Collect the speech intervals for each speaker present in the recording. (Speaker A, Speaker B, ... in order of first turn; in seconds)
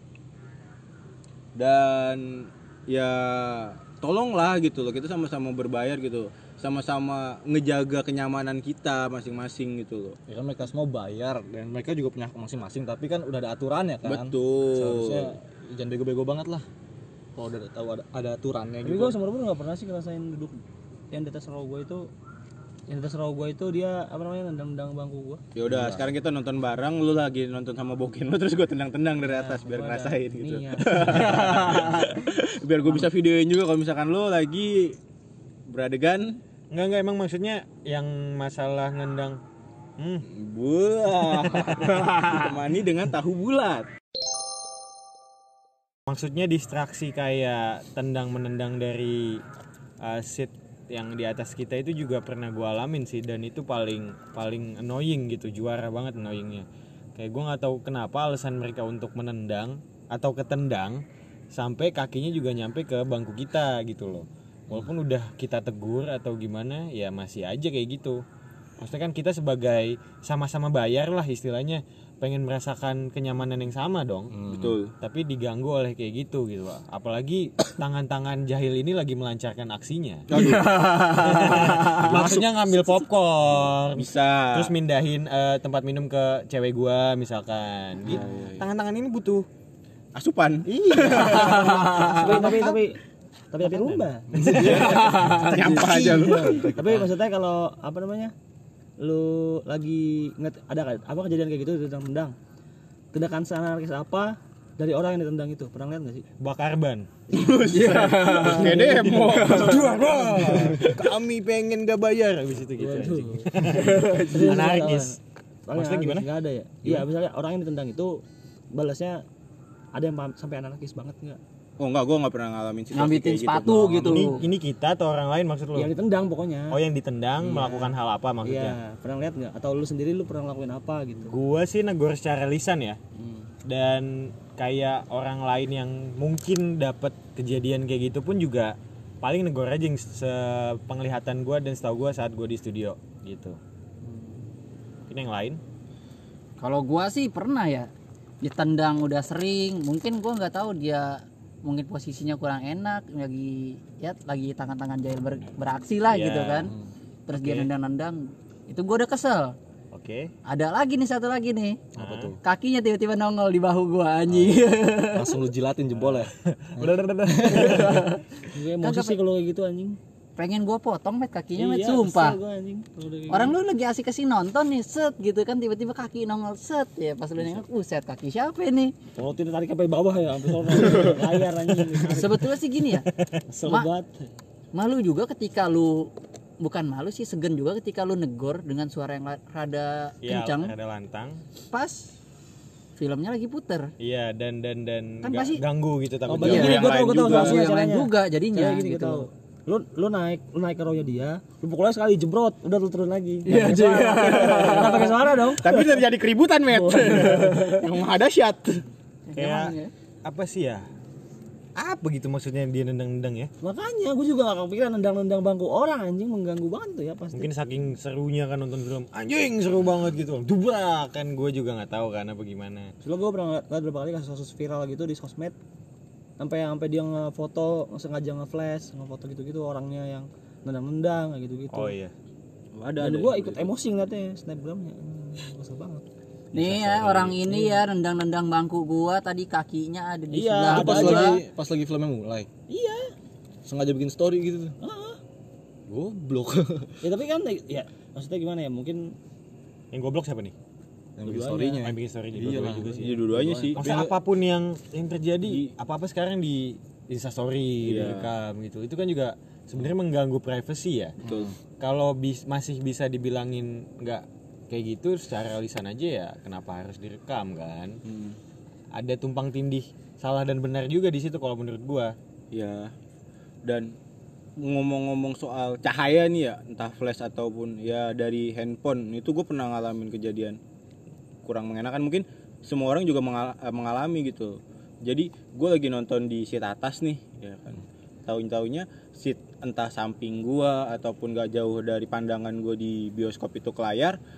Speaker A: 1.6-10.2, 14.1-15.4, 25.6-35.0, 35.7-36.4, 40.3-43.9, 74.5-74.9, 80.3-82.3, 83.9-84.7, 88.1-88.7, 90.2-92.0, 94.6-96.7, 107.3-109.9, 110.6-111.0, 121.8-124.3, 196.4-197.7, 205.6-208.8, 232.7-233.7, 253.0-254.1, 255.5-255.7, 257.8-258.3, 261.2-261.5, 268.1-268.4, 272.5-272.9, 273.6-273.9, 274.6-280.6, 281.4-294.2
Speaker B: 10.3-16.7, 17.4-19.2, 25.7-26.1, 74.3-74.8, 80.3-80.8, 94.3-97.1, 162.0-162.4, 164.3-164.6, 165.1-167.9, 236.5-237.4, 240.7-242.5, 243.7-244.8, 245.9-247.0, 251.2-254.1, 261.2-261.5
Speaker C: 18.8-20.6, 21.1-22.1, 22.9-25.4, 29.2-31.9, 91.0-93.0, 93.5-98.3, 99.0-102.4, 103.1-106.3, 107.3-109.5, 112.8-119.2, 119.9-121.4, 125.7-126.8, 127.4-131.3, 133.2-133.4, 167.4-170.0, 171.6-173.6, 179.2-182.4, 183.5-184.3, 196.3-205.8, 206.7-207.8, 213.6-217.5, 223.0-225.6, 226.4-231.9, 233.0-236.1, 237.5-237.8, 240.3-241.4, 242.7-243.1, 244.8-245.2, 247.0-249.2, 251.2-251.9
Speaker D: 36.7-39.4, 40.0-40.3, 41.5-42.0, 46.1-49.4, 50.0-68.2, 68.8-74.3, 75.0-80.3, 81.1-89.5, 90.7-92.8, 93.6-94.1, 94.7-95.6, 106.4-107.1, 109.5-115.2, 115.7-116.3, 124.0-125.9, 126.7-128.8, 131.3-133.0, 133.7-143.6, 145.1-145.6, 156.1-156.7, 157.3-157.7, 159.9-160.3, 162.0-162.3, 166.8-167.6, 190.2-191.4, 194.0-196.9, 209.4-210.8, 211.8-213.5, 217.3-222.9, 231.7-232.1, 249.9-250.5, 251.8-261.2, 261.8-268.0, 268.9-272.1
Speaker E: 80.8-81.3, 91.4-91.9, 94.8-95.3, 107.7-108.7, 109.3-109.8, 122.9-124.4, 146.6-147.9, 148.4-156.7, 157.3-159.6, 160.5-161.8, 162.4-165.4, 167.6-168.2, 168.8-169.2, 170.4-172.4, 173.3-178.9, 182.1-183.1, 183.6-183.9, 184.7-190.7, 191.7-192.1, 193.0-193.9, 195.2-195.6, 196.5-199.3, 203.4-205.2, 209.3-209.9, 236.5-241.4